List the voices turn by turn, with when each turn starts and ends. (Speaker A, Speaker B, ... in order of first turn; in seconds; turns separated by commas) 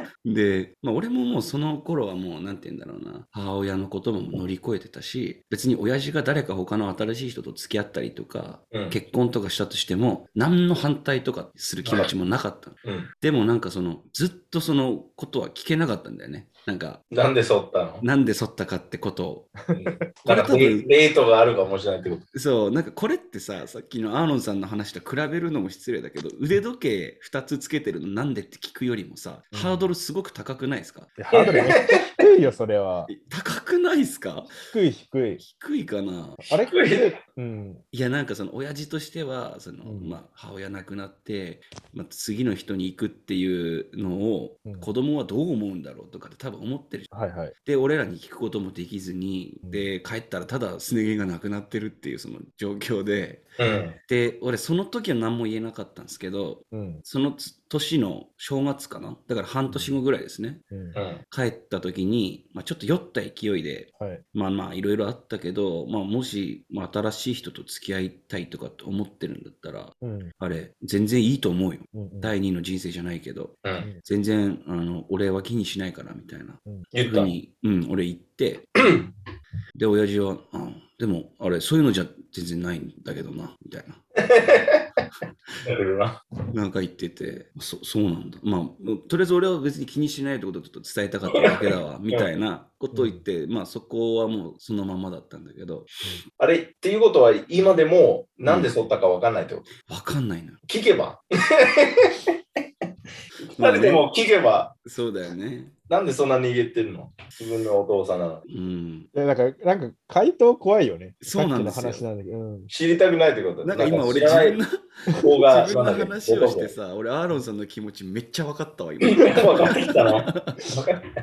Speaker A: 0.2-17.0, Speaker B: 8.7-9.0, Speaker B: 12.8-13.1, Speaker B: 17.1-18.0, Speaker A: 18.0-19.5, Speaker B: 19.7-22.2, Speaker A: 20.2-20.9, Speaker A: 22.3-31.1, Speaker C: 29.5-29.9, Speaker C: 31.2-33.1, Speaker B: 31.3-32.1, Speaker A: 33.1-34.5, Speaker C: 34.6-35.4, Speaker A: 35.4-36.4, Speaker C: 36.5-37.8, Speaker B: 36.6-37.2, Speaker A: 37.9-47.1, Speaker C: 39.8-40.2, Speaker C: 47.1-47.5, Speaker A: 47.6-53.4, Speaker B: 53.6-54.0, Speaker A: 54.0-60.6, Speaker C: 56.7-57.0, Speaker C: 60.7-61.0, Speaker B: 60.9-61.2, Speaker A: 61.3-78.7, Speaker C: 64.0-64.2, Speaker C: 70.0-70.3, Speaker C: 71.9-72.3, Speaker B: 76.9-77.3, Speaker B: 78.8-79.1, Speaker A: 79.7-84.4, Speaker B: 84.2-84.8, Speaker B: 85.6-86.2, Speaker A: 86.5-95.9, Speaker B: 91.3-92.3, Speaker C: 92.9-93.2, Speaker B: 96.4-99.7, Speaker A: 98.5-98.7, Speaker A: 99.9-100.6, Speaker B: 100.7-102.3, Speaker B: 103.5-104.7, Speaker A: 103.6-104.1, Speaker A: 104.8-105.7, Speaker B: 105.9-108.4, Speaker A: 108.5-109.1, Speaker C: 109.1-112.7, Speaker A: 111.2-112.0, Speaker B: 112.7-114.6, Speaker A: 113.6-120.6, Speaker B: 115.1-116.7, Speaker B: 119.0-121.0